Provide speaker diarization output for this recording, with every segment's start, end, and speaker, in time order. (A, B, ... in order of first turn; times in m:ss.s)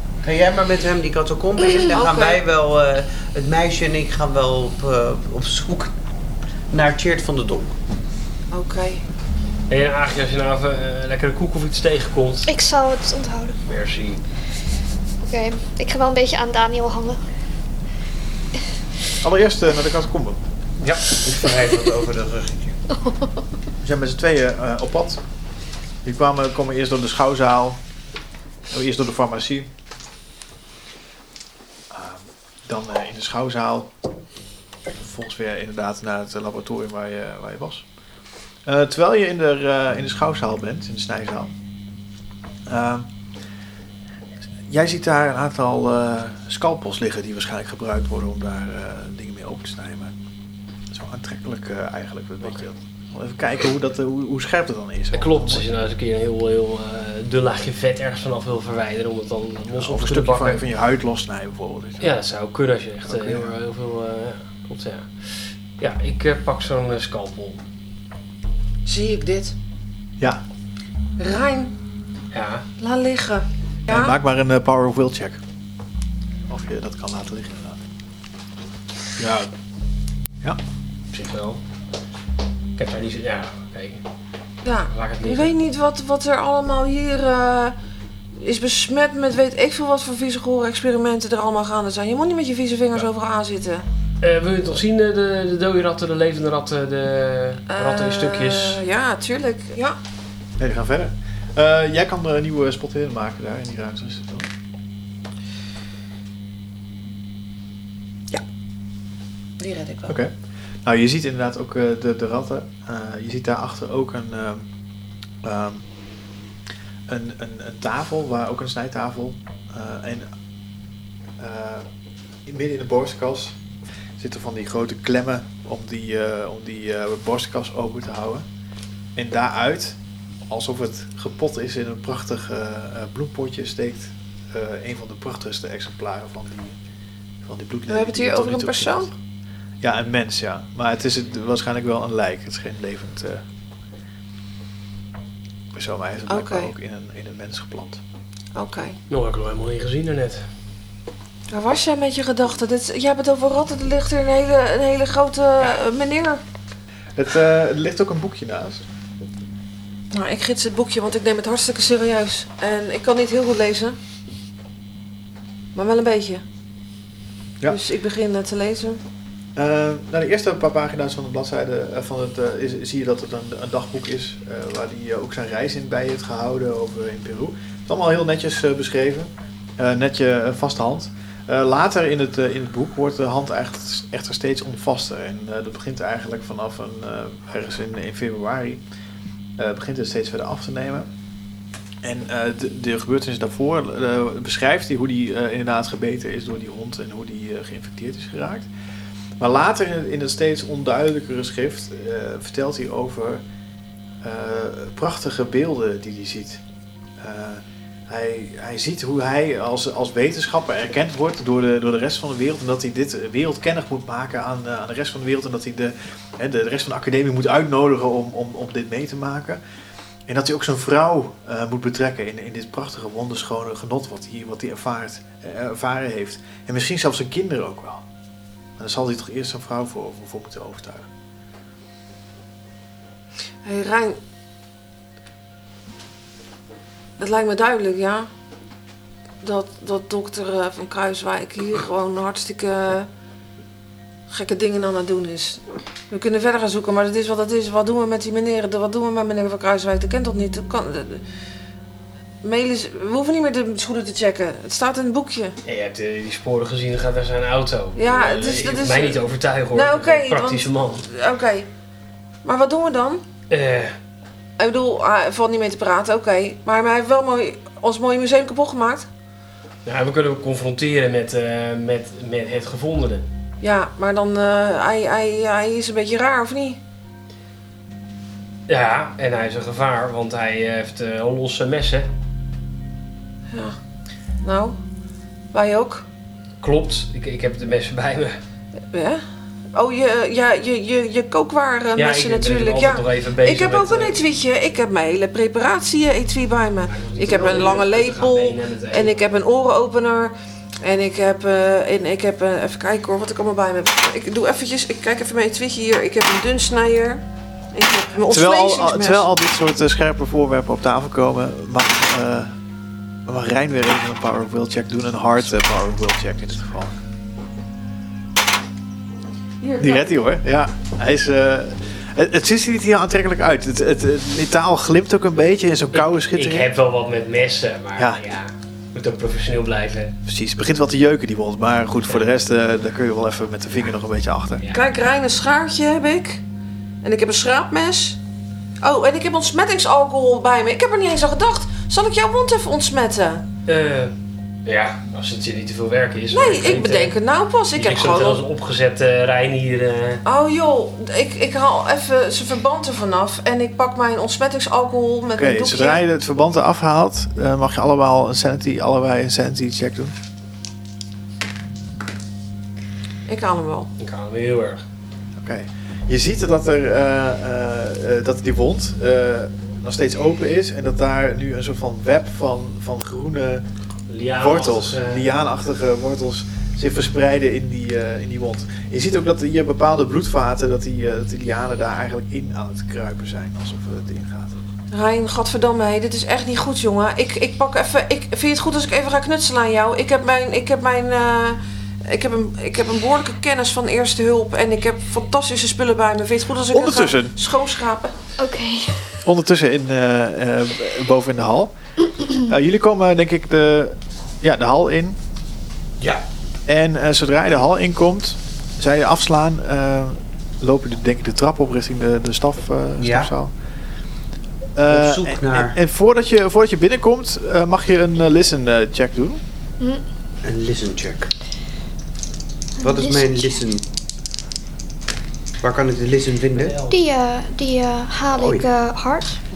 0:00.2-0:05.9 A
0:01.7-0:02.4 B
0:06.7-0:07.8 A
0:08.5-0:09.0 B
0:09.7-0:12.5 C
0:12.4-0:13.6 D
0:13.7-0:14.2 C
0:15.2-0:17.2 D
0:19.2-0:20.4 E
0:20.8-0:21.5 C
0:21.1-0:22.8 A
0:23.0-0:23.3 D
0:23.8-0:25.2 E
0:26.0-0:27.8 E
0:28.7-0:29.7 E
0:31.9-0:33.9 E
0:35.0-0:37.8 E
0:38.6-0:41.5 E
0:42.6-0:43.1 E
0:44.7-0:50.2 E
0:50.9-0:55.6 E
0:55.1-1:00.6 C
0:59.7-1:02.1 E
1:02.0-1:07.6 C
1:03.0-1:03.5 E
1:08.8-1:09.6 B
1:11.2-1:11.7 B
1:12.3-1:12.6 C
1:12.8-1:14.1 B
1:13.9-1:15.4 E
1:16.5-1:17.8 E
1:19.2-1:19.5 E
1:21.1-1:21.6 C
1:22.8-1:24.0 C
1:24.6-1:27.8 B
1:24.9-1:25.5 C
1:28.4-1:33.8 B
1:34.2-1:38.8 C
1:37.7-1:40.0 B
1:40.6-1:44.5 E
1:49.6-1:50.2 B
1:50.1-1:50.3 E
1:50.8-1:54.7 E
1:55.4-1:55.8 E
1:57.1-2:00.3 E
2:01.4-2:01.8 E
2:02.4-2:03.6 E
2:04.2-2:08.4 E
2:09.1-2:16.8 E
2:17.4-2:19.1 E
2:17.9-2:19.1 B
2:19.8-2:23.4 E
2:25.7-2:28.0 E
2:26.3-2:26.7 B
2:28.5-2:29.0 B
2:29.1-2:30.4 C
2:31.5-2:36.4 B
2:37.1-2:38.8 E
2:40.1-2:44.0 B
2:45.7-2:46.4 B
2:47.7-2:49.0 B
2:49.6-3:08.8 E
3:09.6-3:11.1 E
3:12.0-3:18.7 E
3:19.4-3:23.4 E
3:24.2-3:26.6 E
3:27.2-3:39.6 E
3:40.3-3:48.0 E
3:48.8-3:51.1 E
3:53.6-3:54.2 B
3:57.2-3:58.3 B
3:59.4-4:03.1 B
4:04.3-4:11.2 B
4:12.4-4:15.5 B
4:15.6-4:21.1 C
4:18.0-4:21.7 B
4:22.4-4:23.2 B
4:23.5-4:23.9 C
4:24.6-4:29.1 B
4:29.8-4:33.3 C
4:33.6-4:36.8 B
4:38.7-4:42.1 C
4:43.5-4:43.8 B
4:44.4-4:44.8 B
4:45.5-4:46.0 B
4:46.6-4:48.4 C
4:48.9-4:49.2 B
4:49.7-5:09.3 B
4:52.0-4:54.2 C
4:56.9-4:59.4 C
5:08.3-5:12.5 E
5:13.2-5:16.9 E
5:19.6-5:20.1 B
5:19.8-5:26.7 E
5:25.9-5:30.2 C
5:30.2-5:34.6 E
5:34.7-5:36.4 B
5:37.0-5:38.2 B
5:38.8-5:43.4 B
5:43.6-5:44.1 C
5:44.6-5:47.1 C
5:46.3-5:48.4 B
5:47.7-5:50.2 C
5:50.2-5:56.0 B
5:55.4-6:00.1 E
6:03.2-6:03.9 B
6:04.0-6:04.8 C
6:05.4-6:13.6 E
6:14.1-6:15.3 C
6:14.4-6:24.5 E
6:24.9-6:38.1 B
6:36.7-6:37.3 E
6:38.4-6:39.1 D
6:39.2-6:41.7 E
6:42.4-6:45.2 E
6:46.7-6:53.5 E
6:53.0-6:53.3 A
6:54.8-6:59.4 E
6:54.9-6:55.8 A
7:00.4-7:01.3 A
7:02.8-7:03.7 D
7:02.8-7:03.8 A
7:05.6-7:06.8 A
7:06.8-7:09.4 D
7:08.3-7:08.6 A